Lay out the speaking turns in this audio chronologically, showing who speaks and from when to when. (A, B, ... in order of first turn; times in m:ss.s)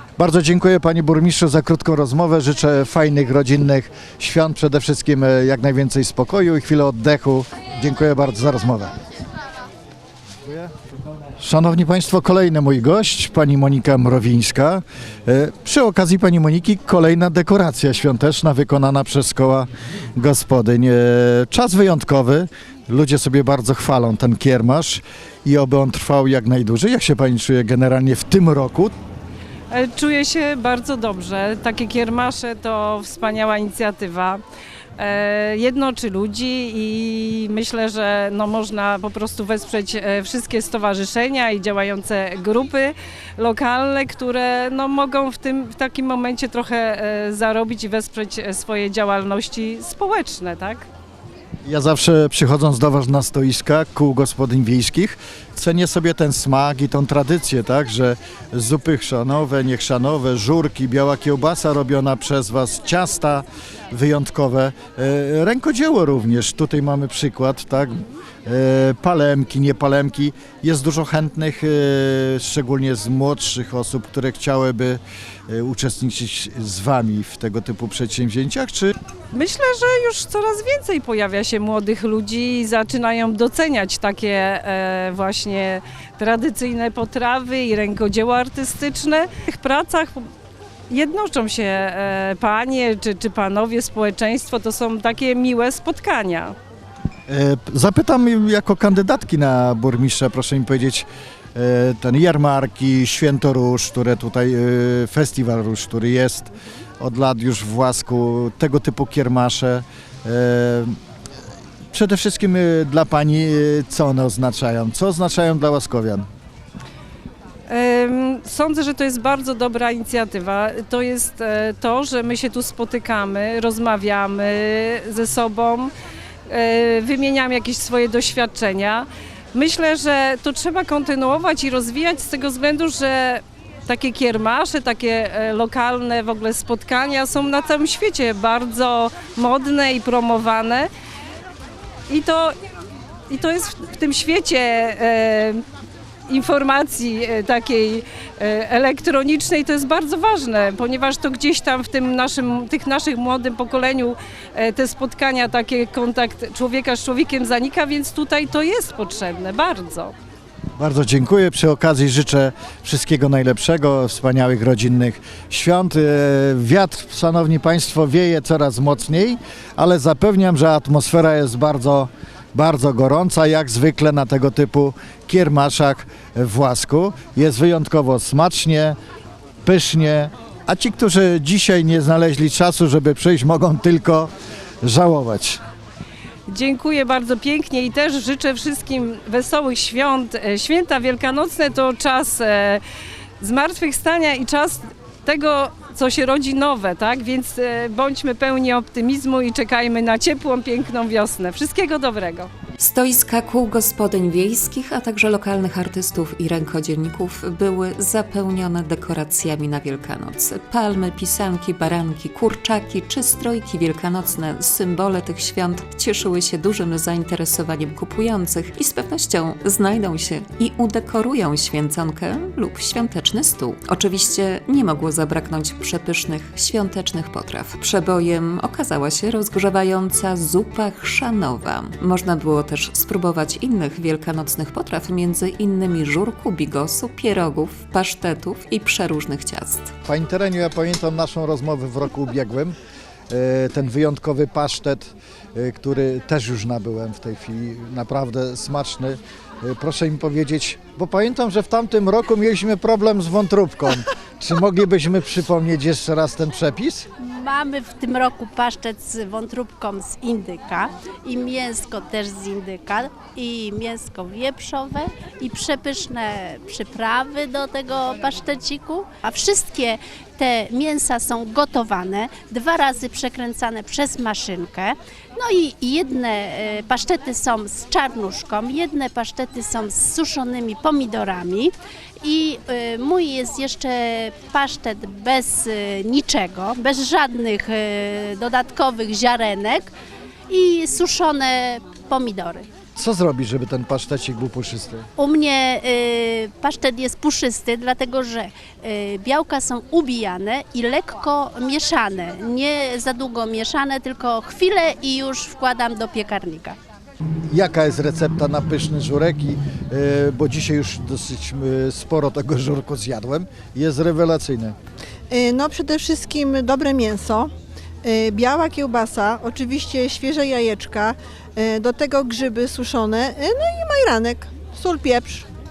0:00.2-0:09.0 A
0:10.4-0:10.7 A
0:11.4-0:28.9 A
0:29.7-0:34.4 B
0:35.0-0:50.8 B
0:51.6-1:18.9 A
1:19.3-1:30.3 B
1:30.9-1:36.5 B
1:37.3-1:51.0 A
1:51.9-1:56.3 A
1:57.7-2:05.9 B
2:06.5-2:20.9 B
2:22.1-2:22.5 B
2:23.3-2:25.6 B
2:26.3-2:40.1 B
2:40.8-2:59.0 A
2:59.6-3:04.3 A
3:04.8-3:05.6 A
3:06.5-3:12.8 B
3:13.4-3:22.5 B
3:22.8-3:59.9 C
4:00.0-4:02.7 A
4:03.3-4:17.1 A
4:17.2-4:49.9 D
4:50.5-4:52.6 D
4:53.0-4:55.1 A
4:55.2-5:06.8 D
5:07.5-5:14.8 A
5:15.3-5:17.5 E
5:18.0-5:25.4 E